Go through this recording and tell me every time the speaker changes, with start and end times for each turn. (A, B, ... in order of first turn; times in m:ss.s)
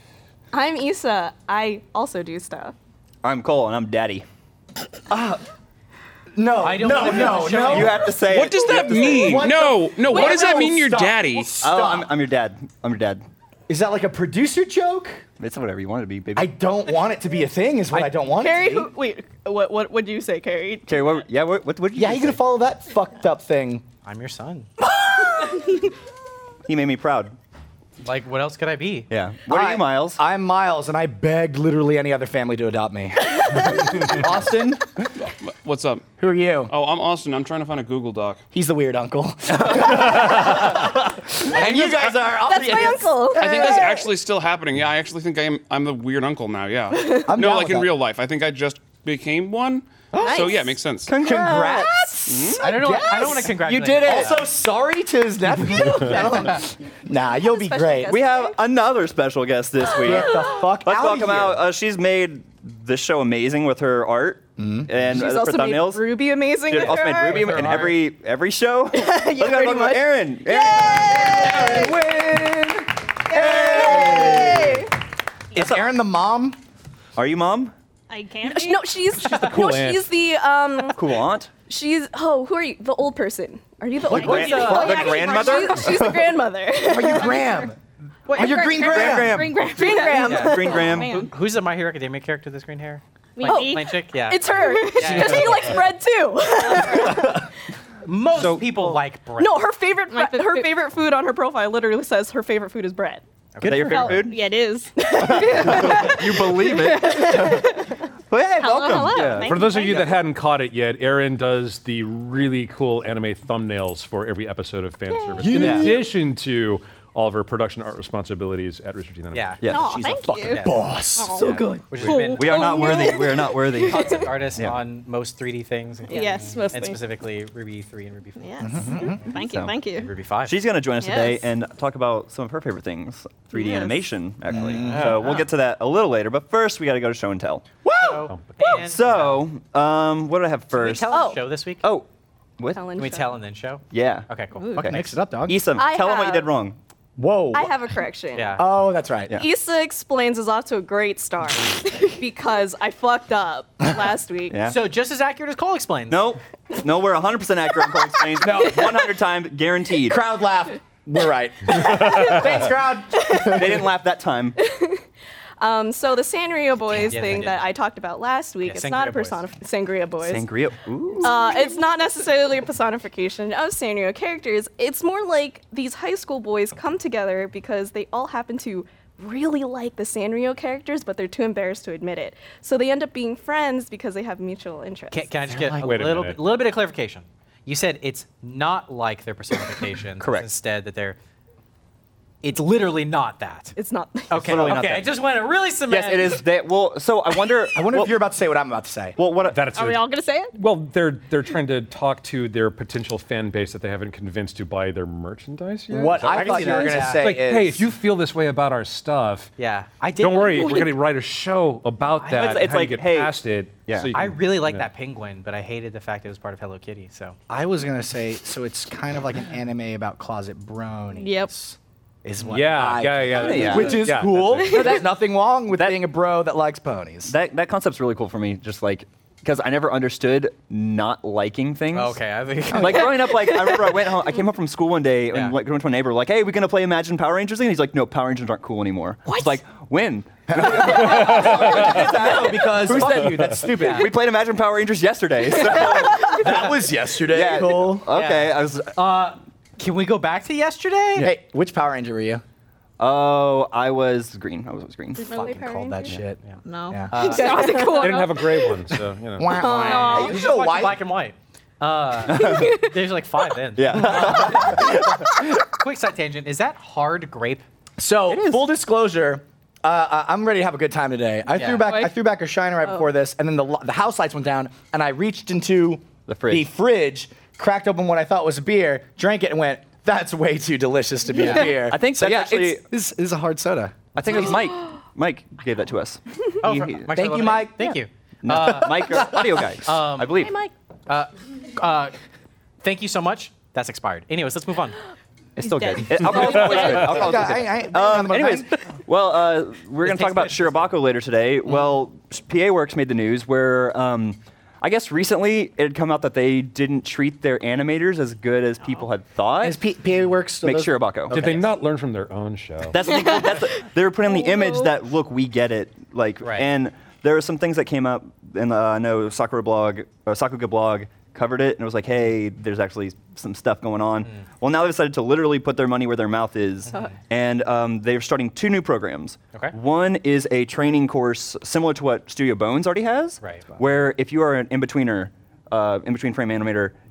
0:00.5-0:02.7 A
0:03.2-0:04.2 B
0:05.1-0:05.4 C
0:06.3-0:08.1 C
0:06.6-0:08.1 D
0:07.6-0:09.5 B
0:08.2-0:11.6 E
0:08.7-0:12.1 C
0:10.1-0:10.6 A
0:11.6-0:13.2 B
0:13.7-0:15.2 C
0:15.4-0:16.6 B
0:16.3-0:18.9 C
0:18.4-0:21.0 A
0:20.9-0:22.4 B
0:21.9-0:23.8 C
0:24.0-0:24.7 D
0:25.0-0:25.7 A
0:26.7-0:27.3 B
0:28.0-0:29.1 D
0:29.1-0:30.2 B
0:29.5-0:34.8 C
0:35.3-0:36.0 E
0:36.2-0:36.7 C
0:36.7-0:38.4 E
0:38.5-0:44.1 C
0:39.6-0:42.2 B
0:42.4-0:44.0 A
0:43.4-0:51.1 E
0:46.9-0:47.3 A
0:47.3-0:47.9 C
0:50.1-0:50.5 C
0:51.0-0:51.9 B
0:51.2-0:58.1 C
0:52.3-0:52.6 E
0:52.6-0:54.5 D
0:53.1-0:53.4 A
0:54.0-0:54.3 B
0:57.3-0:58.6 A
0:58.1-1:11.9 B
0:59.9-1:01.6 C
1:04.6-1:04.9 C
1:05.1-1:07.8 A
1:07.5-1:07.9 C
1:08.9-1:12.0 A
1:11.0-1:14.9 C
1:13.3-1:14.9 A
1:13.6-1:14.8 B
1:15.5-1:16.6 C
1:15.5-1:15.8 B
1:17.2-1:17.7 B
1:18.1-1:19.0 F
1:18.4-1:27.7 A
1:19.1-1:20.1 G
1:20.9-1:21.5 B
1:24.1-1:26.4 B
1:24.1-1:25.1 D
1:24.3-1:26.0 F
1:26.8-1:27.8 C
1:28.2-1:28.7 D
1:28.3-1:31.3 F
1:28.4-1:29.5 C
1:28.8-1:31.1 B
1:29.7-1:30.9 A
1:30.0-1:35.8 D
1:33.4-1:34.0 F
1:34.3-1:37.5 A
1:38.0-1:39.7 D
1:38.3-1:39.0 G
1:39.4-1:43.2 A
1:40.1-1:40.7 F
1:43.6-1:44.2 D
1:43.6-1:44.4 B
1:43.8-1:44.9 F
1:45.0-1:47.8 A
1:45.1-1:47.7 B
1:45.6-1:45.8 F
1:46.8-1:47.7 F
1:48.3-1:49.4 B
1:48.6-1:50.2 F
1:49.1-1:59.6 G
1:55.4-1:56.1 C
1:55.6-1:55.9 D
1:59.3-1:59.7 D
1:59.6-2:00.0 B
1:59.6-2:04.3 F
1:59.7-2:01.7 C
2:00.3-2:00.9 D
2:01.4-2:04.8 B
2:01.9-2:03.1 D
2:03.9-2:09.0 D
2:06.1-2:07.0 F
2:08.4-2:10.1 F
2:08.6-2:09.2 C
2:09.3-2:09.7 B
2:10.0-2:10.6 D
2:10.4-2:17.6 B
2:11.0-2:11.5 F
2:13.5-2:14.0 F
2:14.5-2:15.4 C
2:14.9-2:15.4 D
2:17.8-2:18.3 C
2:18.0-2:19.4 D
2:18.6-2:21.1 B
2:20.7-2:21.8 D
2:21.1-2:21.4 A
2:22.6-2:22.8 B
2:22.7-2:23.4 A
2:23.0-2:25.2 D
2:23.9-2:24.3 B
2:24.6-2:24.8 F
2:24.8-2:26.8 B
2:24.8-2:25.6 C
2:25.7-2:26.5 A
2:27.2-2:27.7 C
2:27.5-2:28.6 A
2:28.3-2:28.6 D
2:28.6-2:29.3 C
2:29.3-2:34.6 A
2:34.5-2:34.8 B
2:34.7-2:36.2 D
2:36.1-2:40.2 B
2:38.4-2:39.0 C
2:40.0-2:43.8 C
2:41.9-2:42.6 A
2:43.2-2:43.6 A
2:43.4-2:44.6 B
2:44.6-2:45.0 A
2:45.6-2:50.4 A
2:46.9-2:47.7 D
2:48.6-2:49.4 D
2:50.2-2:51.5 B
2:51.2-3:05.3 A
3:05.1-3:11.2 D
3:05.5-3:06.4 G
3:10.2-3:10.5 B
3:12.4-3:13.7 D
3:13.8-3:14.8 A
3:14.3-3:16.4 D
3:14.4-3:15.2 B
3:15.9-3:18.2 B
3:17.7-3:19.2 C
3:19.2-3:19.7 B
3:19.4-3:29.5 G
3:19.7-3:20.5 F
3:25.9-3:27.9 C
3:26.2-3:27.3 D
3:29.6-3:30.9 D
3:30.2-3:34.9 G
3:32.2-3:32.7 D
3:32.3-3:34.1 B
3:34.1-3:37.4 D
3:37.5-3:47.3 C
3:41.2-3:41.5 F
3:42.4-3:44.9 G
3:43.3-3:44.1 B
3:44.5-3:45.0 F
3:45.7-3:46.0 B
3:47.2-3:52.2 B
3:51.9-3:53.2 D
3:52.7-4:06.7 B
3:59.3-3:59.6 F
4:00.5-4:04.2 C
4:01.1-4:01.5 G
4:05.7-4:08.1 C
4:07.3-4:09.0 B
4:08.1-4:11.3 D
4:11.2-4:12.4 C
4:13.0-4:15.2 B
4:15.2-4:16.0 F
4:15.3-4:15.9 A
4:15.3-4:17.3 C
4:16.6-4:18.7 F
4:17.1-4:17.8 D
4:17.2-4:18.2 A
4:17.9-4:19.6 G
4:19.4-4:21.0 C
4:19.6-4:20.3 A
4:19.7-4:20.4 F
4:20.1-4:27.6 D
4:22.3-4:22.8 B
4:23.8-4:25.5 B
4:24.1-4:24.4 C
4:28.0-4:44.0 C
4:28.3-4:28.7 B
4:31.6-4:32.0 D
4:36.3-4:36.7 B
4:41.6-4:42.8 B
4:44.1-4:47.1 B
4:46.6-4:50.5 D
4:47.1-4:47.8 C
4:47.8-4:50.5 B
4:49.2-4:49.5 C
4:50.4-4:50.7 F
4:51.1-4:52.1 D
4:52.8-4:55.0 D
4:55.6-5:09.8 B
4:55.6-4:57.0 F
4:56.2-4:58.7 C
5:00.0-5:00.9 D
5:09.6-5:11.7 C
5:10.6-5:11.5 B
5:11.3-5:13.0 G
5:12.9-5:36.9 B
5:13.1-5:13.6 F
5:14.3-5:14.9 F
5:26.9-5:27.1 D